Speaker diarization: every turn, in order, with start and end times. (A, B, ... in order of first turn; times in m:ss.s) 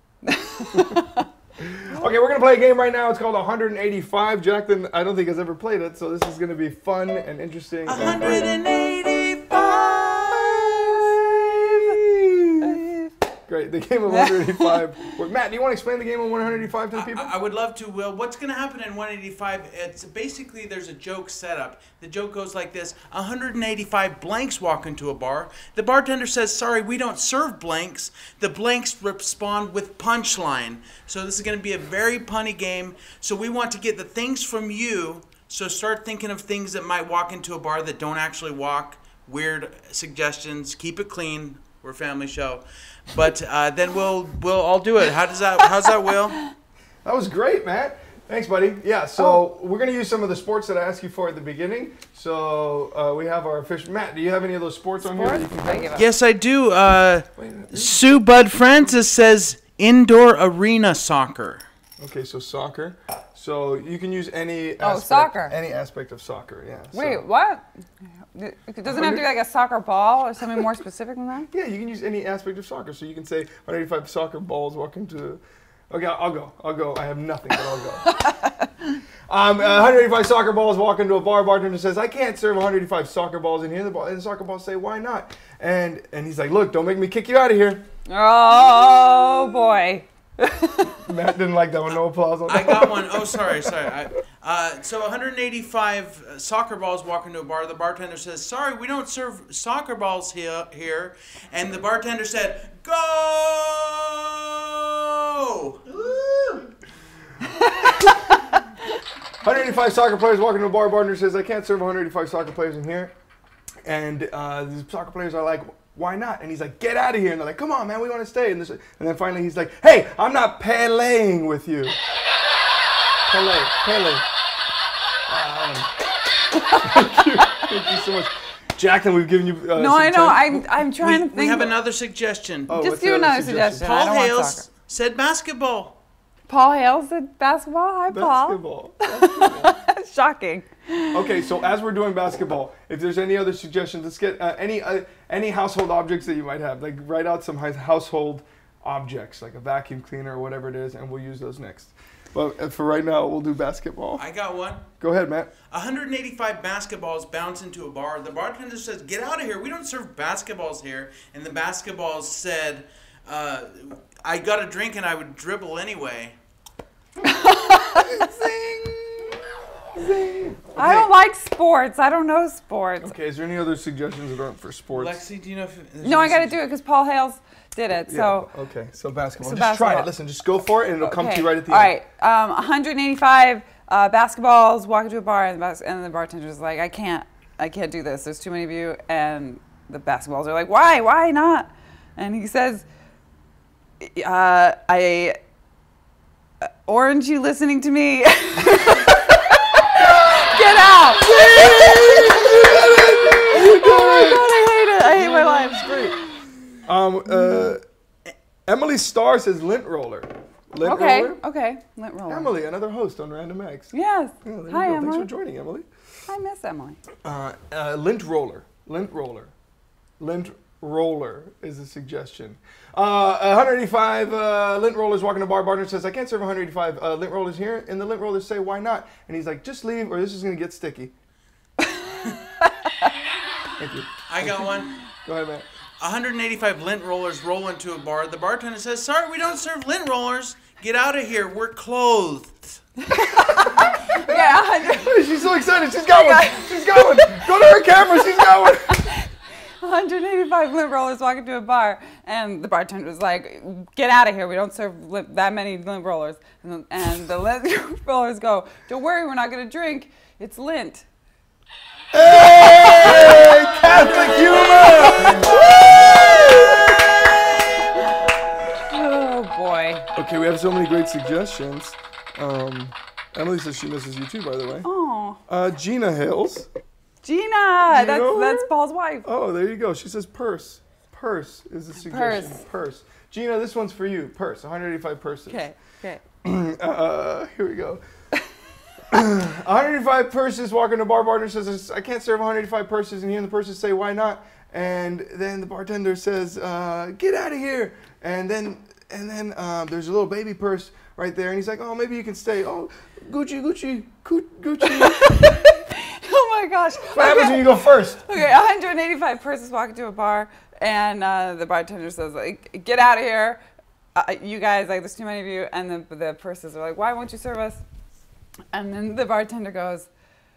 0:00.2-0:01.3 A
0:00.7-0:01.0 B
0:01.6-0:08.6 B
0:07.9-0:10.7 C
0:10.3-0:12.9 B
0:12.6-0:13.1 A
0:13.5-0:17.3 B
0:14.1-0:14.8 A
0:16.9-0:46.4 C
0:47.0-0:55.9 B
0:55.0-0:56.1 A
0:56.0-1:01.6 C
0:57.4-0:58.0 B
1:02.0-1:07.2 B
1:04.8-1:05.6 A
1:06.9-1:07.7 A
1:08.3-1:11.5 A
1:08.8-1:09.3 B
1:11.5-1:18.1 B
1:18.1-1:18.7 A
1:19.3-1:27.9 B
1:28.1-1:31.0 A
1:31.0-1:33.5 B
1:32.5-1:46.6 C
1:47.8-1:48.2 B
1:49.4-1:53.1 B
1:53.8-2:02.0 B
2:03.3-2:04.2 B
2:05.3-2:05.9 B
2:06.8-2:10.8 B
2:09.8-2:11.8 A
2:11.0-2:12.8 C
2:12.7-2:13.8 B
2:12.7-2:14.6 A
2:13.8-2:16.0 C
2:16.5-2:21.2 A
2:18.1-2:19.8 B
2:21.1-2:34.2 B
2:34.2-2:34.9 C
2:35.0-2:35.5 B
2:35.7-2:46.4 C
2:47.2-2:48.2 A
2:47.9-2:51.1 B
2:50.8-2:53.2 A
2:53.0-2:55.2 B
2:54.9-2:56.6 C
2:56.0-2:58.5 A
2:58.1-3:01.9 B
2:59.4-3:00.1 A
3:01.0-3:12.9 A
3:14.0-3:15.4 A
3:16.6-3:22.8 A
3:21.2-3:24.5 B
3:23.5-3:26.3 A
3:25.1-3:26.2 B
3:26.9-3:27.8 B
3:27.3-3:27.7 A
3:28.7-3:31.4 B
3:30.8-3:32.5 A
3:32.3-3:35.9 B
3:33.9-3:35.3 A
3:36.3-3:37.0 A
3:37.2-3:39.5 B
3:40.2-3:51.1 B
3:53.8-3:54.7 B
3:54.3-3:55.0 C
3:55.2-3:55.7 B
3:56.0-4:02.8 C
4:03.1-4:05.2 A
4:03.2-4:09.0 B
4:06.0-4:07.6 A
4:08.9-4:09.3 A
4:09.8-4:21.1 A
4:22.1-4:27.7 B
4:22.2-4:26.8 A
4:28.8-4:30.1 A
4:30.2-4:34.9 B
4:34.8-4:35.4 A
4:35.5-4:36.7 B
4:37.2-4:39.3 A
4:37.9-4:38.7 B
4:39.2-4:45.6 B
4:42.0-4:42.6 A
4:45.5-4:46.2 A
4:46.4-4:48.0 B
4:49.1-5:05.6 B
5:04.9-5:13.6 A
5:07.1-5:08.2 B
5:14.2-5:17.8 A
5:18.7-5:20.1 A